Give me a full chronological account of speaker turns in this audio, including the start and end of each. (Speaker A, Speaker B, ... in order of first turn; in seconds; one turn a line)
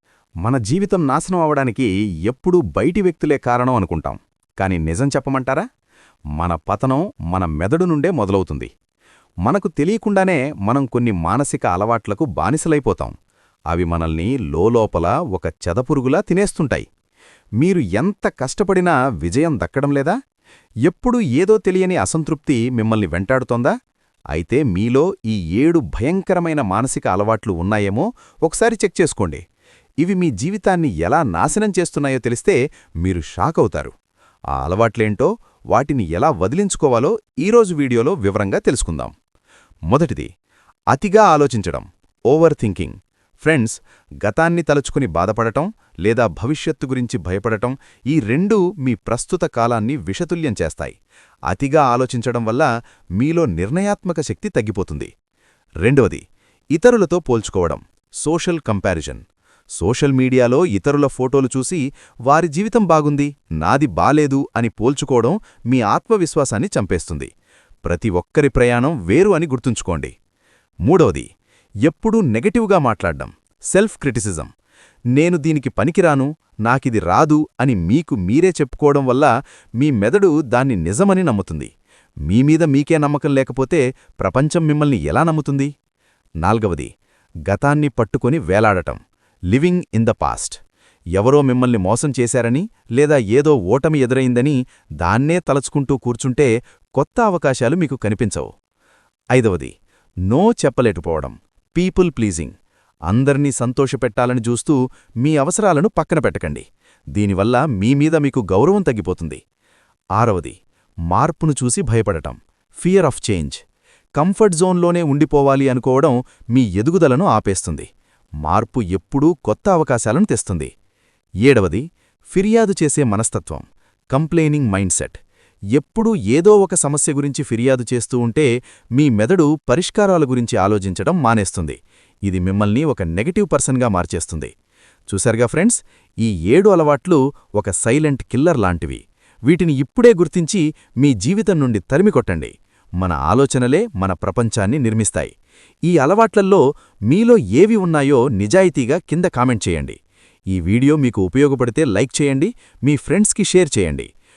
Speaker A: 0.4-5.6
Speaker A: 6.4-8.7
Speaker A: 9.4-13.1
Speaker A: 13.7-16.9
Speaker A: 17.6-20.2
Speaker A: 20.9-23.7
Speaker A: 24.3-29.4
Speaker A: 30.0-33.9
Speaker A: 34.5-39.1
Speaker A: 39.9-40.3
Speaker A: 40.9-51.0
Speaker A: 51.5-55.1
Speaker A: 55.8-56.2
Speaker A: 56.7-59.2
Speaker A: 59.8-67.3
Speaker A: 67.9-70.1
Speaker A: 70.9-71.3
Speaker A: 71.9-74.5
Speaker A: 75.2-81.7
Speaker A: 82.3-85.7
Speaker A: 86.4-86.9
Speaker A: 87.5-89.0
Speaker A: 89.5-90.6
Speaker A: 91.2-98.5
Speaker A: 99.3-99.7
Speaker A: 100.3-102.6
Speaker A: 103.1-106.7
Speaker A: 107.2-109.4
Speaker A: 110.2-110.6
Speaker A: 111.1-113.6
Speaker A: 114.2-117.9
Speaker A: 118.4-120.7
Speaker A: 121.4-125.2
Speaker A: 125.8-134.5
Speaker A: 135.1-145.3
Speaker A: 145.9-150.0
Speaker A: 150.5-154.1